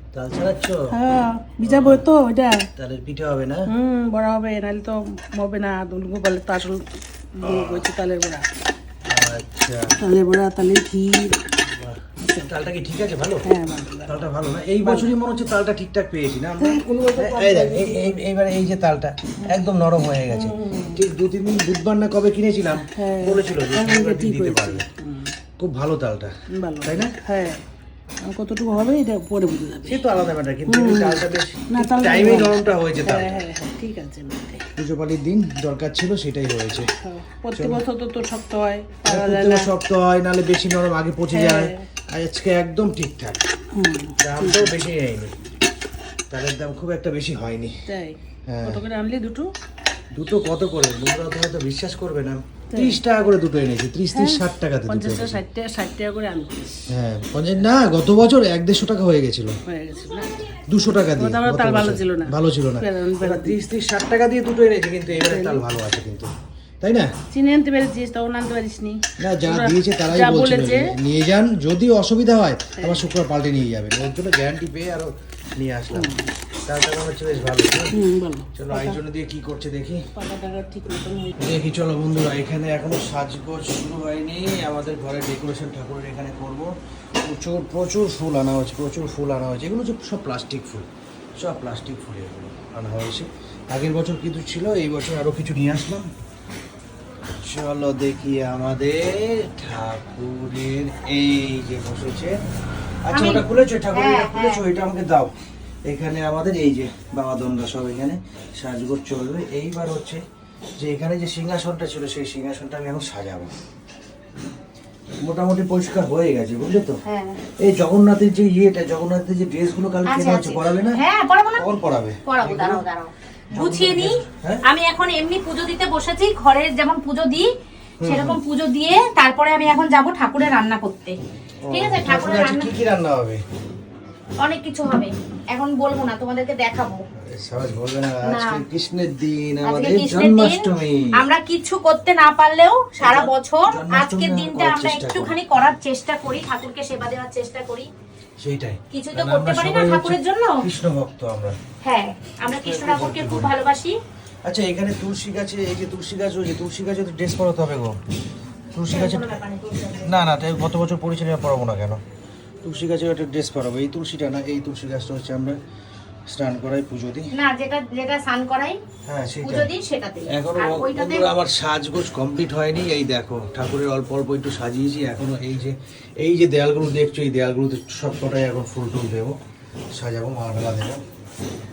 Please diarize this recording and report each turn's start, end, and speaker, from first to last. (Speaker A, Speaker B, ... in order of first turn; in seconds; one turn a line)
Speaker A: 0.1-0.9
Speaker B: 0.9-2.7
Speaker A: 1.6-2.0
Speaker A: 2.8-3.7
Speaker B: 3.7-8.4
Speaker A: 7.4-7.8
Speaker A: 9.1-9.9
Speaker B: 10.0-11.4
Speaker A: 11.7-13.4
Speaker B: 13.4-14.2
Speaker A: 14.1-24.8
Speaker B: 14.8-15.1
Speaker B: 16.6-18.2
Speaker B: 20.3-21.1
Speaker B: 22.8-25.3
Speaker A: 25.6-27.1
Speaker B: 26.6-27.6
Speaker B: 28.2-30.1
Speaker A: 29.8-33.4
Speaker B: 30.7-34.6
Speaker A: 34.8-36.9
Speaker B: 37.0-39.7
Speaker A: 37.5-37.8
Speaker A: 39.0-43.4
Speaker B: 41.3-41.9
Speaker B: 43.7-44.8
Speaker A: 44.2-45.3
Speaker A: 46.3-47.7
Speaker B: 47.9-49.5
Speaker A: 48.5-48.8
Speaker A: 50.1-55.4
Speaker B: 52.7-53.0
Speaker B: 54.1-56.6
Speaker A: 56.9-59.5
Speaker B: 59.7-63.6
Speaker A: 60.7-66.3
Speaker B: 65.2-65.6
Speaker A: 66.8-67.1
Speaker B: 67.3-70.9
Speaker A: 69.2-76.1
Speaker B: 72.8-73.1
Speaker B: 75.9-76.3
Speaker A: 76.7-78.0
Speaker B: 77.9-79.0
Speaker A: 78.5-80.0
Speaker B: 80.2-81.5
Speaker A: 81.4-86.7
Speaker A: 87.2-90.9
Speaker A: 91.4-96.1
Speaker A: 97.4-102.4
Speaker A: 103.0-105.3
Speaker C: 103.1-104.6
Speaker A: 105.9-110.2
Speaker A: 110.8-113.5
Speaker A: 115.2-117.0
Speaker C: 117.0-117.4
Speaker A: 117.6-121.0
Speaker C: 120.0-121.6
Speaker A: 121.5-122.8
Speaker C: 122.2-127.5
Speaker A: 123.5-124.6
Speaker A: 128.0-128.4
Speaker C: 128.0-131.2
Speaker A: 131.6-133.4
Speaker C: 131.7-132.7
Speaker C: 134.4-137.0
Speaker A: 137.2-141.2
Speaker C: 138.2-138.6
Speaker C: 139.6-147.9
Speaker A: 143.0-145.4
Speaker A: 148.4-151.5
Speaker C: 148.9-150.6
Speaker C: 151.8-153.9
Speaker A: 152.4-153.5
Speaker A: 154.4-158.0
Speaker A: 158.7-159.4
Speaker C: 158.9-160.2
Speaker A: 160.0-162.0
Speaker A: 162.6-165.6
Speaker A: 166.3-167.3
Speaker C: 167.3-168.8
Speaker A: 169.0-169.7
Speaker C: 169.4-171.3
Speaker A: 170.3-179.3
Speaker A: 179.9-181.0